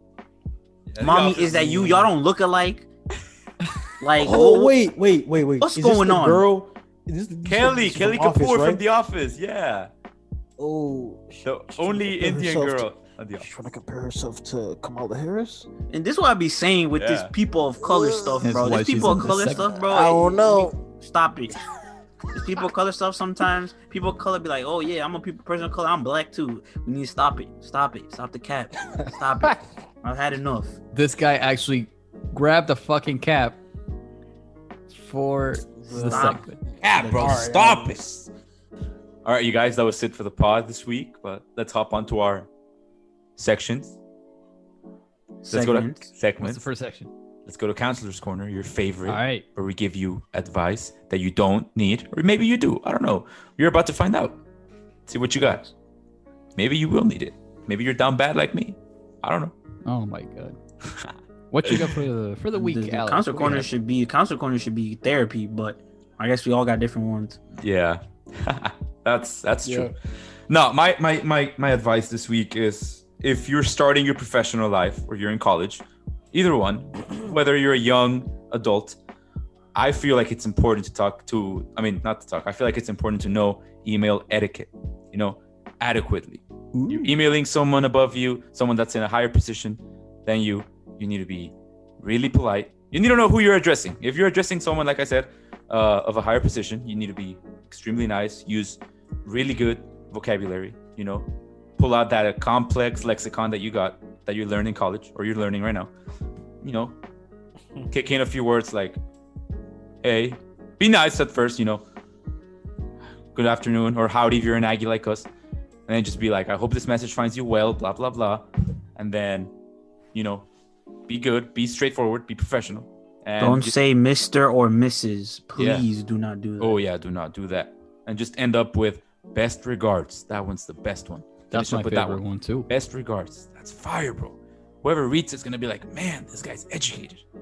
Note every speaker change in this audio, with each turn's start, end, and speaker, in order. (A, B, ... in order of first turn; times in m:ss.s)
0:00.9-0:02.0 A
0:01.0-0:02.9 B
0:01.7-0:02.1 C
0:04.0-0:04.8 B
0:04.2-0:08.8 C
0:05.6-0:06.4 B
0:07.4-0:09.9 A
0:10.6-0:12.8 C
0:11.4-0:13.5 A
0:13.4-0:15.7 C
0:15.9-0:21.6 B
0:17.0-0:17.3 A
0:17.8-0:19.1 C
0:18.4-0:19.7 D
0:19.8-0:20.8 C
0:22.3-0:30.8 B
0:30.9-0:33.6 D
0:34.9-0:36.6 D
0:35.8-0:38.3 C
0:35.9-0:36.4 B
0:36.8-0:38.1 A
0:39.2-0:42.5 A
0:43.4-0:44.0 A
0:45.4-0:46.1 B
0:45.5-0:46.6 A
0:46.4-0:47.1 D
0:47.4-0:54.4 A
0:49.0-0:49.4 D
0:55.1-0:55.6 A
0:56.6-0:59.5 A
0:59.8-1:00.6 D
1:01.5-1:03.7 D
1:01.6-1:02.0 A
1:02.5-1:07.4 B
1:07.6-1:09.9 A
1:09.6-1:09.9 C
1:10.5-1:19.0 A
1:19.7-1:41.3 A
1:26.7-1:27.1 C
1:41.8-1:45.9 A
1:46.6-1:47.0 A
1:47.9-1:49.0 A
1:50.0-1:51.8 A
1:53.3-1:55.3 A
1:55.9-1:59.5 A
2:00.1-2:00.4 A
2:01.1-2:03.7 A
2:03.4-2:06.8 B
2:05.6-2:05.8 A
2:06.6-2:17.2 A
2:11.5-2:12.7 D